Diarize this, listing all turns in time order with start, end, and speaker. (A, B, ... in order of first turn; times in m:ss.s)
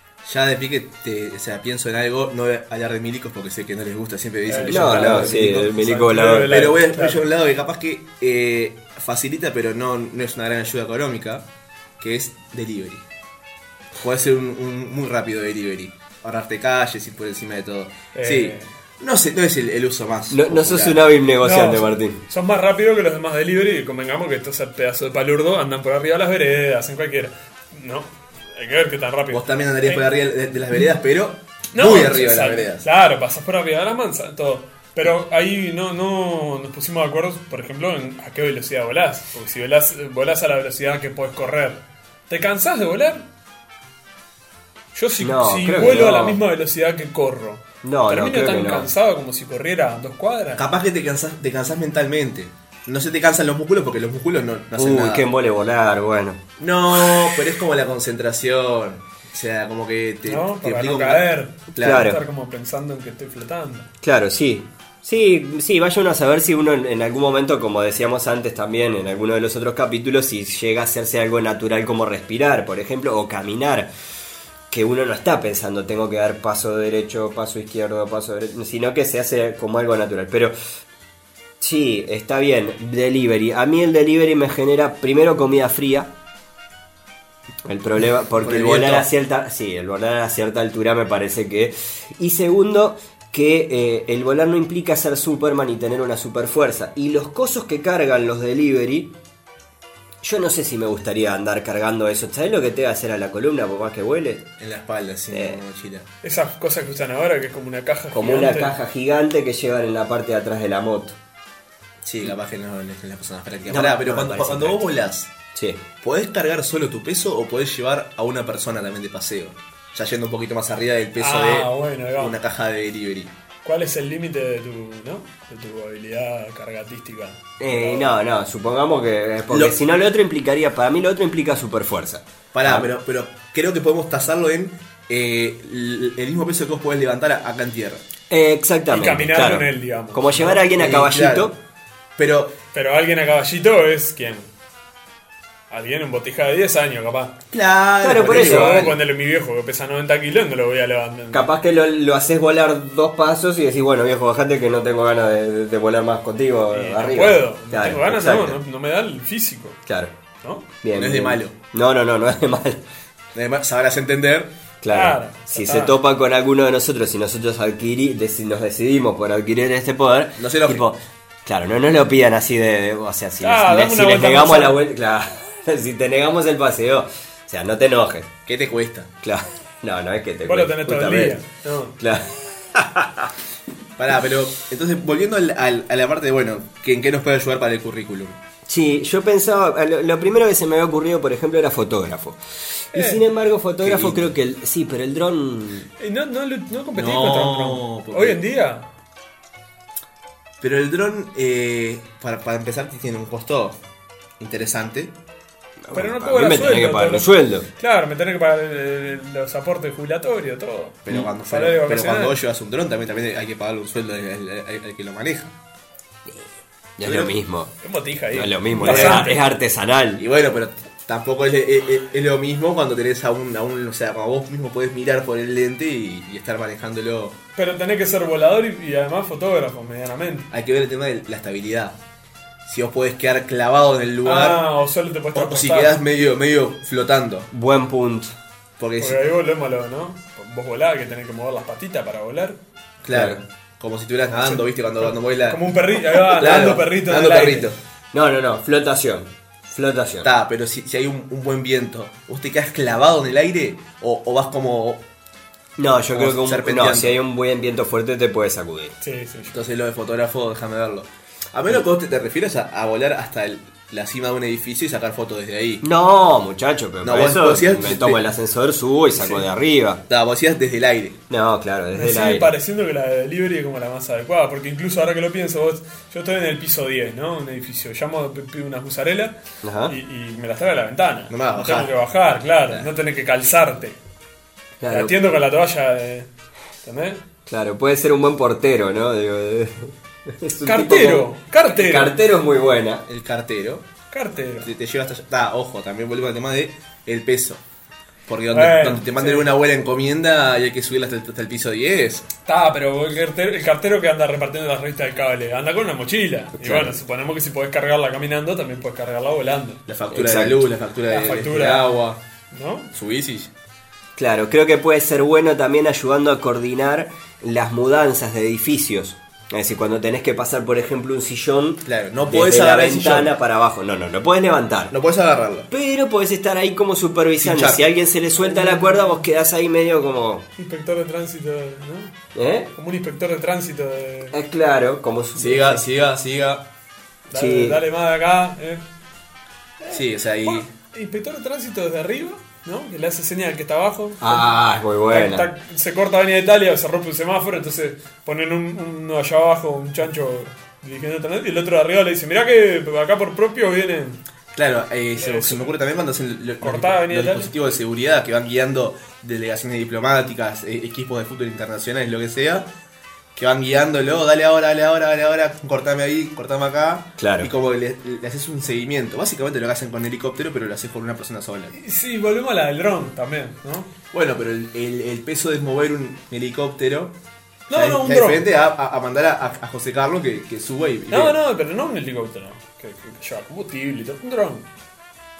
0:00.2-0:05.6 A
0:04.5-0:07.2 B
0:04.7-0:06.7 C
0:06.4-0:11.5 A
0:12.0-0:13.0 A
0:14.0-0:21.0 A
0:18.1-0:18.7 B
0:20.3-0:22.2 C
0:21.4-0:30.0 B
0:29.3-0:32.8 A
0:31.7-0:43.3 B
0:44.9-0:50.7 B
0:45.2-0:46.4 C
0:47.8-0:48.9 C
0:50.6-0:55.3 A
0:54.8-0:56.4 C
0:56.6-1:02.1 A
1:00.2-1:03.9 B
1:01.8-1:02.2 C
1:04.0-1:13.9 C
1:14.7-1:20.5 C
1:21.6-1:26.1 C
1:27.6-1:39.1 C
1:28.4-1:29.1 A
1:40.2-1:44.4 C
1:44.6-1:46.1 A
1:45.3-1:45.6 C
1:46.2-1:48.7 B
1:48.1-1:51.2 C
1:52.0-1:55.3 A
1:53.7-1:54.8 C
1:55.5-1:55.8 C
1:56.0-2:03.3 A
2:01.2-2:02.4 B
2:03.6-2:08.2 B
2:07.6-2:12.9 C
2:09.5-2:09.8 A
2:12.5-2:18.0 A
2:18.3-2:21.5 C
2:18.9-2:20.7 B
2:20.7-2:21.6 A
2:22.2-2:22.6 A
2:22.7-2:24.5 B
2:25.7-2:27.4 B
2:27.5-2:29.0 A
2:28.0-2:28.9 C
2:28.2-2:31.4 B
2:31.3-2:38.6 C
2:36.7-2:39.8 B
2:39.9-2:40.1 C
2:40.4-2:40.7 B
2:40.8-2:42.8 C
2:41.0-2:41.6 A
2:43.3-2:44.5 A
2:44.8-2:58.3 C
2:44.9-2:46.0 B
2:50.4-2:50.8 A
2:53.4-2:54.8 B
2:58.4-2:59.1 A
2:59.2-3:01.4 C
3:00.4-3:02.0 B
3:02.0-3:03.3 C
3:04.0-3:08.4 A
3:08.7-3:12.4 C
3:12.9-3:15.9 C
3:12.9-3:13.2 B
3:13.8-3:14.3 A
3:16.0-3:18.9 B
3:16.9-3:18.4 A
3:20.6-3:23.8 A
3:24.4-3:25.1 A
3:25.8-3:27.7 C
3:25.9-3:32.4 B
3:31.0-3:35.5 A
3:36.2-3:37.7 C
3:37.0-3:37.3 A
3:37.8-3:39.4 B
3:38.3-3:40.2 C
3:38.8-3:39.4 A
3:40.2-3:47.4 A
3:47.6-3:50.5 B
3:50.5-3:52.0 A
3:52.6-3:54.6 A
3:54.2-3:56.0 B
3:55.3-3:57.5 A
3:57.5-3:58.3 C
3:58.8-3:59.2 A
3:59.0-4:02.6 B
4:03.0-4:07.8 A
4:03.1-4:03.4 C
4:04.3-4:07.7 B
4:08.1-4:10.3 C
4:10.2-4:15.0 A
4:15.8-4:19.0 C
4:16.1-4:17.2 A
4:19.0-4:19.5 B
4:19.5-4:25.8 A
4:25.8-4:30.0 C
4:27.0-4:28.2 A
4:29.2-4:29.4 B
4:30.1-4:31.2 A
4:31.3-4:32.5 C
4:31.9-4:44.0 B
4:39.6-4:40.0 C
4:41.3-4:41.9 A
4:44.8-4:45.3 C
4:44.9-4:46.3 B
4:46.8-4:47.2 B
4:47.4-4:53.0 C
4:50.6-4:52.2 B
4:53.1-4:53.8 A
4:54.1-4:54.7 B
4:54.6-4:57.6 A
4:58.3-5:02.3 A
4:58.5-4:59.5 B
5:02.4-5:09.8 B
5:06.6-5:06.9 C
5:09.9-5:12.2 A
5:10.1-5:10.7 C
5:11.1-5:11.9 B
5:12.5-5:12.9 B
5:12.9-5:13.5 A
5:14.2-5:24.9 C
5:21.8-5:23.3 A
5:24.9-5:25.7 A
5:25.7-5:30.5 C
5:27.4-5:27.8 A
5:28.4-5:29.2 B
5:30.6-5:32.1 B
5:32.3-5:32.7 C
5:32.7-5:34.4 B
5:34.3-5:35.8 C
5:35.4-5:36.7 A
5:37.3-5:38.8 B
5:37.3-5:37.8 C
5:39.8-5:44.5 B
5:39.9-5:40.7 A
5:44.2-5:45.5 C
5:45.1-5:54.2 B
5:54.5-6:02.7 A
5:55.2-5:55.8 B
5:56.6-5:57.5 B
6:03.3-6:11.7 A
6:07.2-6:07.5 C
6:11.7-6:13.9 B
6:14.1-6:17.2 A
6:17.7-6:18.4 B
6:17.7-6:21.4 A
6:21.1-6:24.7 B